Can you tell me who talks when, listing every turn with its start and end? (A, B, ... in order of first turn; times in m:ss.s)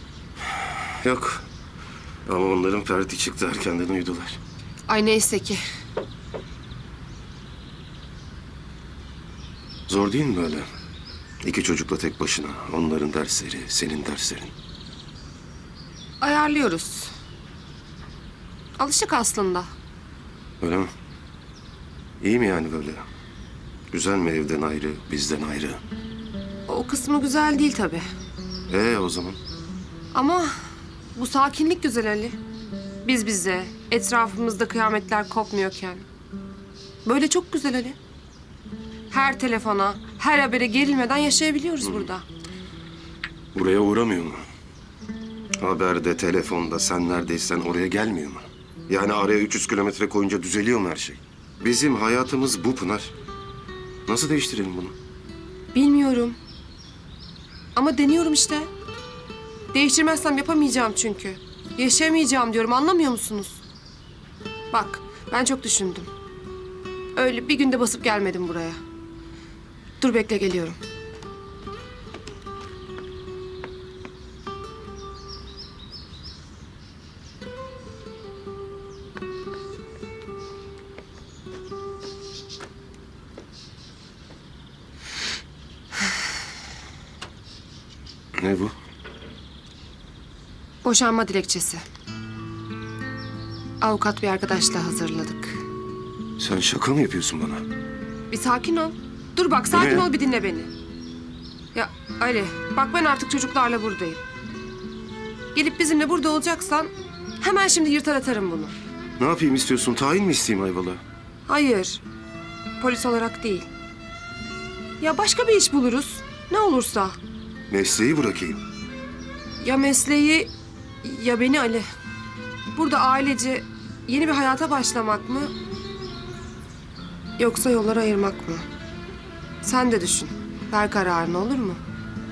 0:00.6-0:01.4 A
0:02.3-0:04.4 A
0:04.9-0:05.6 B
0:09.9-0:10.7 A
0:11.4-0:14.5 A
0:16.2-0:17.1 B
0:18.8-0:19.7 B
0:20.6-0:20.9 A
0:22.2-0:23.0 A
0:23.9-0:25.8 A
0:26.7-0:28.0 B
0:28.7-0:29.4 A
0:30.1-0:30.5 B
0:31.2-0:32.4 B
0:33.0-0:36.0 B
0:37.0-0:38.0 B
0:39.1-0:42.2 B
0:43.5-0:44.4 A
0:45.6-0:53.1 A
0:54.1-0:55.0 A
0:55.7-0:56.4 B
0:57.8-0:58.7 B
0:59.7-1:03.6 B
1:04.7-1:06.1 B
1:07.2-1:08.8 B
1:10.0-1:10.8 B
1:28.4-1:28.7 A
1:30.8-1:31.8 B
1:33.8-1:35.6 B
1:36.4-1:37.6 A
1:38.3-1:40.7 B
1:39.7-1:40.1 A
1:41.7-1:44.2 B
1:45.5-1:48.7 B
1:49.2-1:51.0 A
1:51.5-1:52.0 B
1:52.8-1:53.7 B
1:55.0-1:57.2 B
1:57.7-1:58.6 A
1:59.6-2:00.5 B
2:01.0-2:01.8 B
2:02.7-2:05.5 B
2:07.4-2:08.7 B
2:09.6-2:11.8 B